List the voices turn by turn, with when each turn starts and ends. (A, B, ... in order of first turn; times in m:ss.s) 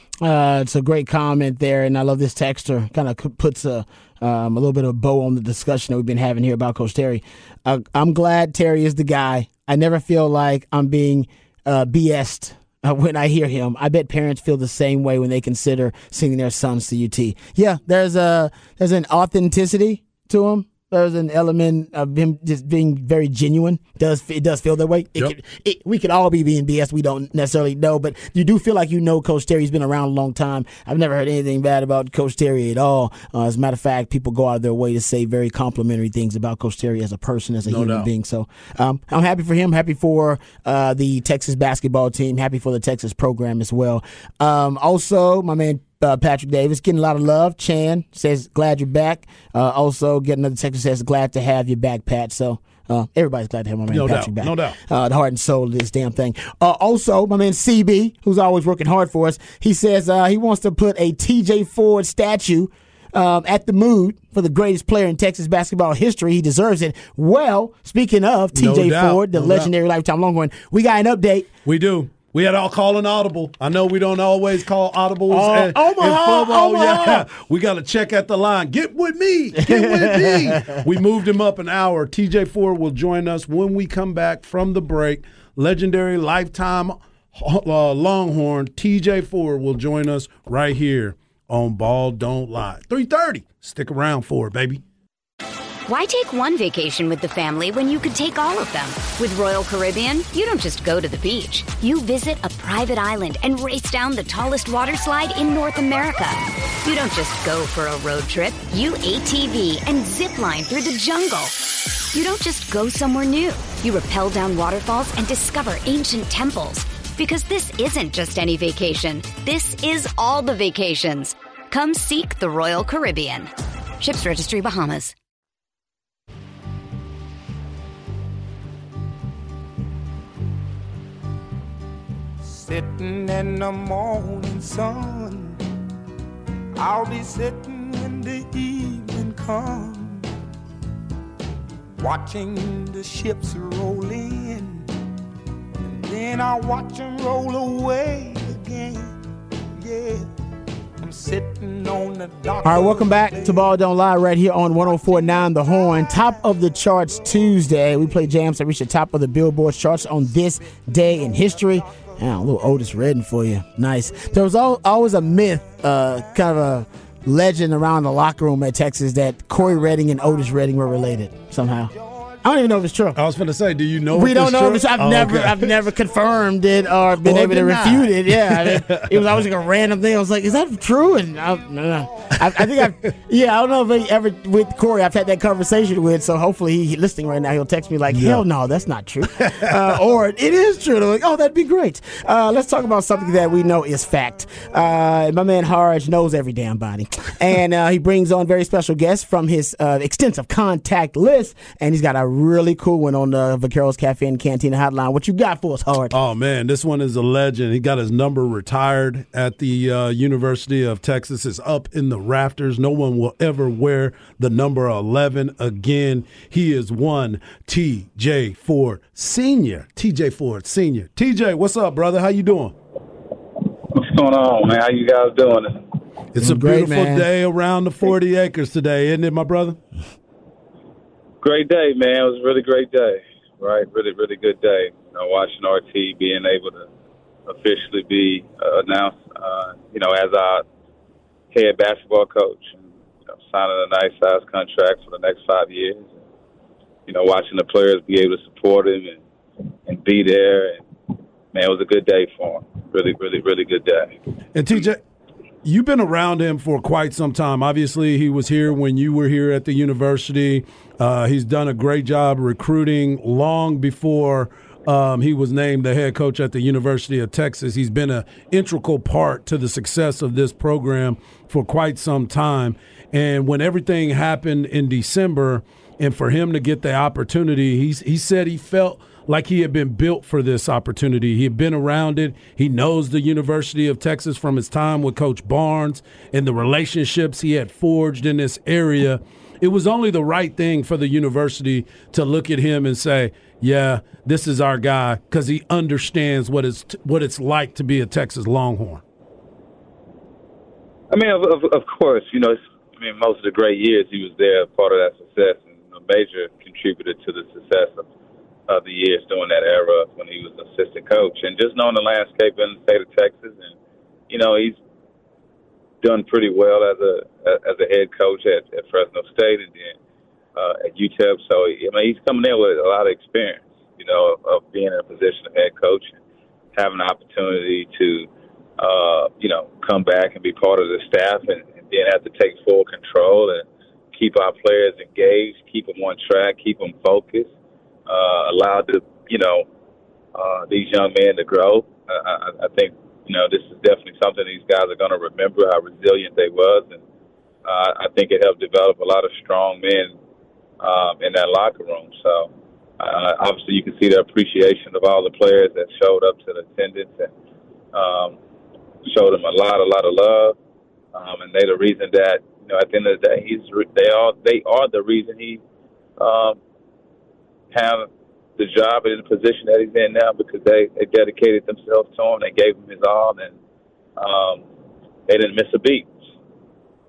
0:00.2-1:11.5 A
0:37.7-0:38.1 B
0:53.9-0:54.8 B
1:08.5-1:09.7 B
1:11.7-1:34.8 B
1:15.3-1:17.2 A
1:19.6-1:20.8 A
1:35.9-1:51.6 C
1:52.1-2:05.1 C
2:12.4-2:15.6 D
2:16.8-2:20.3 D
2:22.0-2:24.9 D
2:25.8-2:29.2 D
2:29.8-2:30.3 D
2:31.0-2:33.7 D
2:32.6-2:53.2 A
2:53.2-2:55.7 B
2:54.1-3:26.2 A
2:57.2-2:59.4 B
3:02.5-3:02.9 B
3:08.1-3:08.4 B
3:09.2-3:09.7 B
3:26.1-3:42.8 B
3:44.0-3:45.8 E
3:46.3-3:49.8 B
3:46.4-3:47.3 A
3:51.4-3:56.9 E
3:57.5-4:00.6 E
4:01.5-4:02.8 E
4:03.5-4:06.1 E
4:07.1-4:09.2 E
4:09.9-4:10.8 E
4:11.5-4:14.1 E
4:14.6-4:15.0 B
4:15.6-4:59.0 B
5:01.1-5:08.1 E
5:08.7-5:13.7 E
5:14.3-5:14.8 E
5:16.0-5:20.0 E
5:20.6-5:26.2 E
5:26.8-5:37.5 E
5:38.1-5:39.7 E
5:40.4-5:47.0 E
5:47.6-5:50.1 E
5:50.8-5:57.3 E
5:57.9-5:58.4 E
5:59.0-6:00.6 E
6:01.1-6:05.6 E
6:06.2-6:06.6 E
6:07.7-6:13.6 E
6:14.2-6:14.6 E
6:15.3-6:16.1 E